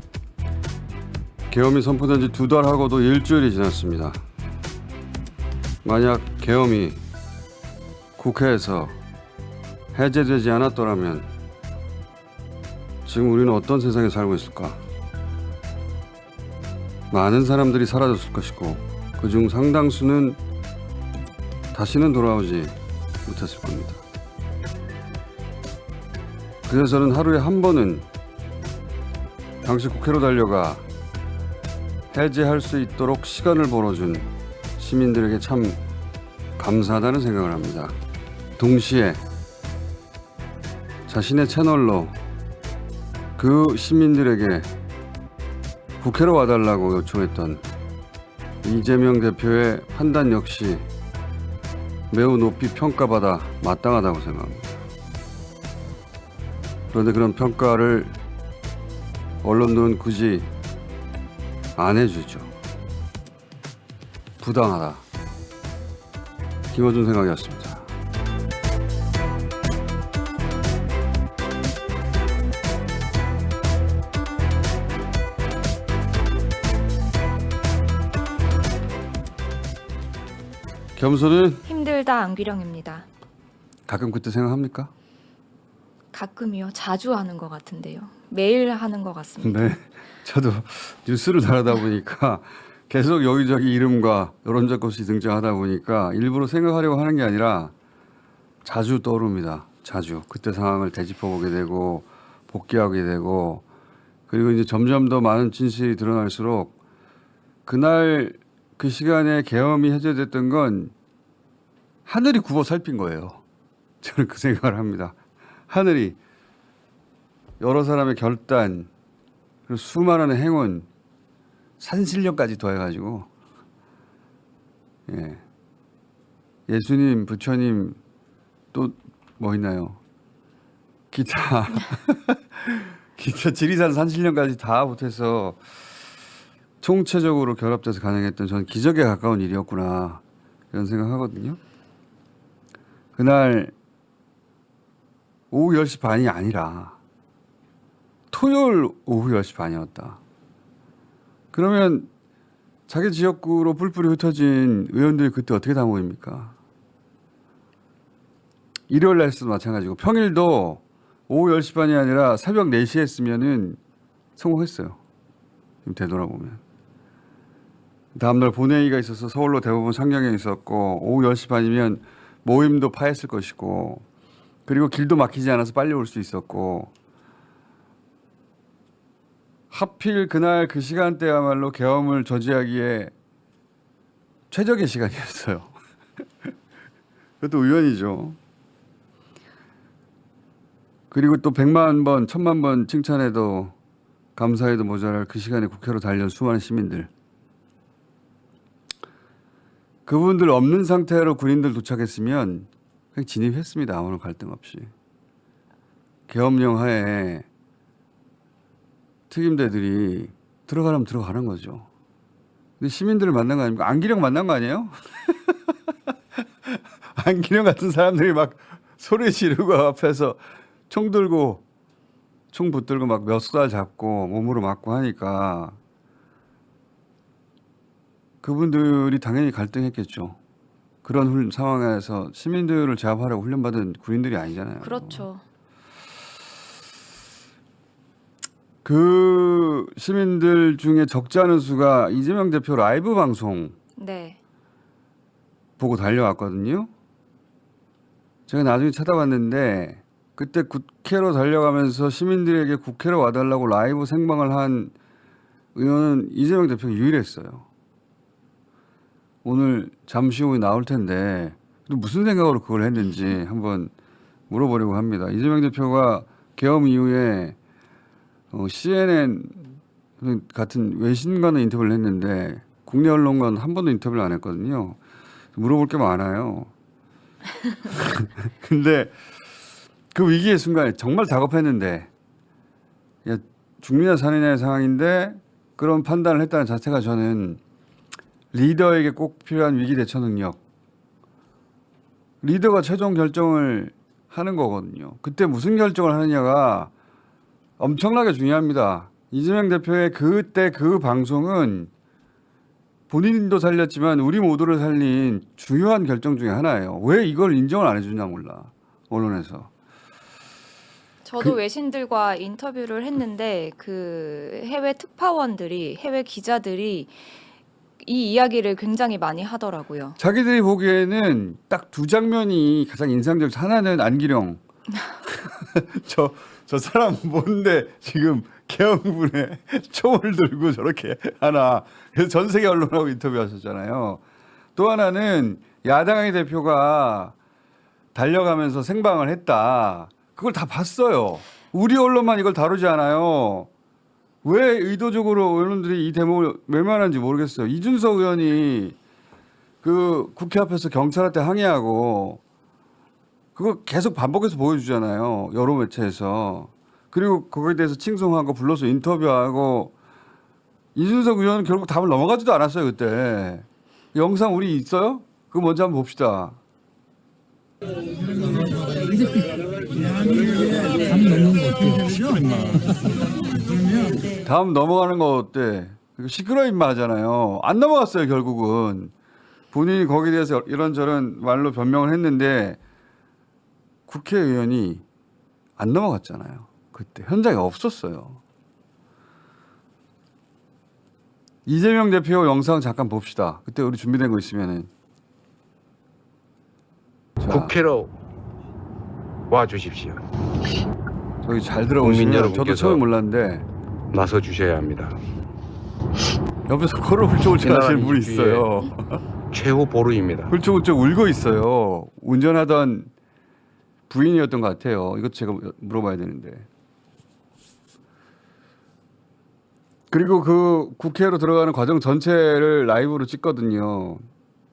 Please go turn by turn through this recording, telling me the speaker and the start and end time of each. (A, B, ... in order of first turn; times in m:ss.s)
0:01.5-0:04.2 A
0:05.8-0:07.0 A
0:08.2-0:09.0 A
0:09.9-0:11.3 A
0:13.0-0:14.8 A
0:17.1-0:20.4 A
0:21.7-0:24.0 A
0:26.7-0:28.0 A
0:29.6-0:30.8 A
0:32.1-0:35.8 A
0:36.6-0:38.0 A
0:38.6-0:39.2 A
0:41.1-0:42.1 A
0:43.4-0:44.7 A
0:46.0-0:47.6 A
0:48.6-0:50.8 A
0:52.1-0:54.7 A
0:56.9-0:58.1 A
0:59.4-1:00.5 A
1:01.8-1:02.5 A
1:04.4-1:05.0 A
1:06.7-1:07.9 A
1:21.0-1:21.6 A
1:21.6-1:23.1 B
1:23.9-1:24.9 A
1:26.1-1:29.7 B
1:29.4-1:37.7 A
1:38.6-1:43.6 A
1:44.3-1:46.7 A
1:47.6-1:50.9 A
1:52.0-1:53.4 A
1:54.0-1:55.2 A
1:55.7-1:56.2 A
1:57.6-1:58.9 A
1:59.7-2:00.9 A
2:01.8-2:03.3 A
2:05.1-2:05.4 A
2:06.7-2:08.0 A
2:08.7-2:10.0 A
2:11.1-2:15.6 A
2:16.8-2:21.6 A
2:23.2-2:23.7 A
2:25.5-2:27.0 A
2:28.3-2:30.2 A
2:31.5-2:32.1 A
2:32.9-2:36.5 A
2:38.9-2:43.8 A
2:44.4-2:45.0 A
2:45.8-2:46.6 A
2:48.1-2:54.0 A
2:54.7-2:56.9 A
2:59.7-3:03.1 A
3:04.5-3:05.7 A
3:07.4-3:08.4 A
3:11.1-3:13.7 A
3:14.4-3:17.1 A
3:20.0-3:24.9 A
3:26.3-3:27.4 A
3:29.3-3:31.8 A
3:32.8-3:35.8 A
3:36.4-3:41.6 A
3:42.5-3:45.8 A
3:48.4-3:50.4 A
3:51.0-3:55.2 A
3:54.8-3:55.4 B
3:58.8-4:03.7 A
4:04.0-4:04.4 B
4:05.8-4:06.9 A
4:08.5-4:14.9 A
4:15.7-4:17.6 A
4:19.4-4:23.9 A
4:24.5-4:27.6 A
4:28.5-4:29.6 A
4:30.2-4:35.0 A
4:35.5-4:36.7 A
4:37.9-4:39.1 A
4:40.1-4:42.1 A
4:43.2-4:47.6 A
4:48.5-4:50.6 A
4:52.4-4:56.9 A
4:57.8-5:01.9 A
5:03.1-5:09.7 A
5:11.2-5:17.1 B
5:18.0-5:20.2 B
5:20.2-5:24.6 A
5:25.2-5:34.2 A
5:34.8-5:37.3 A
5:38.1-5:43.7 A
5:44.4-5:49.0 A
5:49.8-5:52.4 A
5:53.6-5:59.9 A
6:00.9-6:06.6 A
6:14.4-6:19.1 A
6:19.7-6:22.8 A
6:24.1-6:25.0 A
6:25.8-6:28.4 A
6:31.6-6:34.9 A
6:37.4-6:37.7 A
6:37.5-6:38.1 C
6:39.5-6:40.2 C
6:41.4-6:43.6 A
6:42.0-6:43.0 C
6:44.1-6:45.2 C
6:46.7-6:49.2 A
6:47.6-6:48.6 C
6:49.5-6:50.5 C
6:50.5-6:53.1 A
6:54.1-6:56.6 A
7:00.1-7:04.2 A